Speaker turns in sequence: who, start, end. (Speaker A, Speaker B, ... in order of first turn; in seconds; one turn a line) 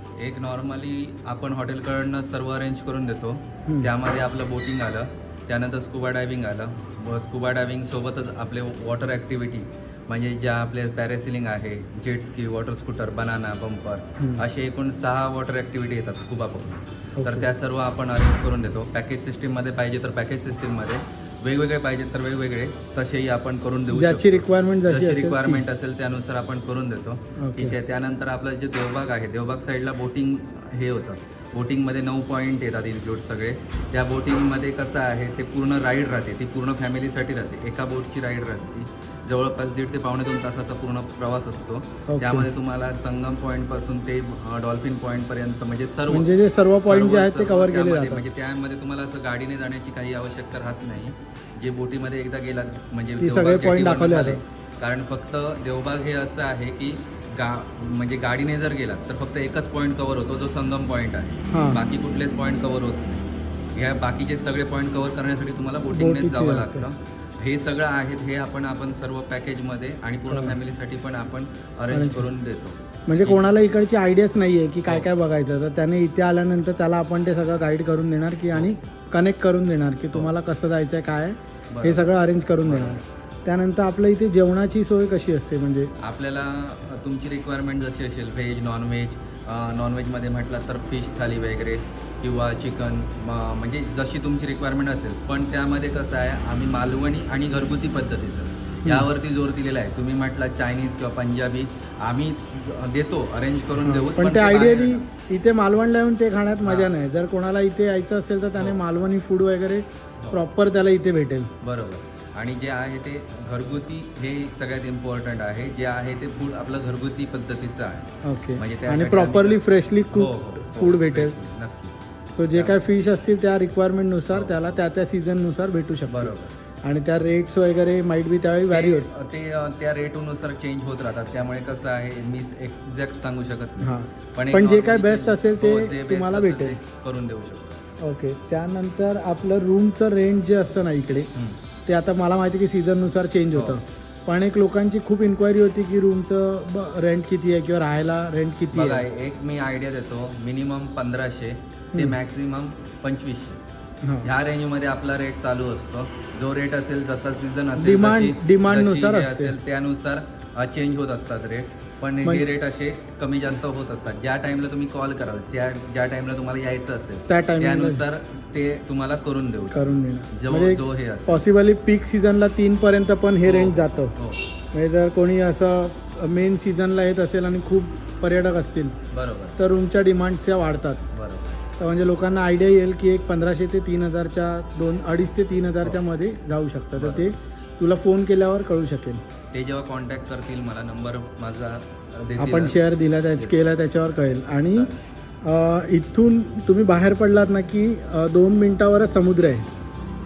Speaker A: 0.2-73.4
Speaker B: 3.6-3.9
Speaker B: 17.2-17.5
Speaker B: 23.9-25.6
Speaker B: 27.4-27.8
Speaker B: 42.1-42.5
Speaker B: 46.1-48.2
Speaker B: 53.2-54.4
Speaker B: 61.5-61.8
Speaker B: 65.9-66.9
Speaker B: 70.3-70.5
Speaker B: 71.9-72.3
Speaker B: 73.1-85.9
Speaker A: 81.7-82.1
Speaker A: 82.6-83.0
Speaker A: 86.0-105.0
Speaker B: 103.8-111.5
Speaker A: 106.6-106.9
Speaker A: 111.6-122.8
Speaker B: 118.2-121.3
Speaker B: 122.3-126.3
Speaker A: 124.3-124.8
Speaker A: 126.1-126.5
Speaker B: 126.8-129.1
Speaker A: 128.7-137.8
Speaker B: 133.8-136.8
Speaker B: 138.0-141.3
Speaker B: 141.8-149.0
Speaker A: 143.5-143.8
Speaker A: 148.7-153.6
Speaker B: 154.0-154.3
Speaker A: 154.2-171.4
Speaker B: 157.8-159.5
Speaker B: 167.3-168.0
Speaker B: 169.7-174.2
Speaker A: 173.4-174.4
Speaker B: 174.7-178.9
Speaker A: 179.1-179.6
Speaker B: 179.6-181.1
Speaker A: 181.1-181.6
Speaker B: 181.8-189.2
Speaker A: 187.0-187.3
Speaker A: 189.5-192.8
Speaker B: 192.4-194.9
Speaker B: 195.4-199.7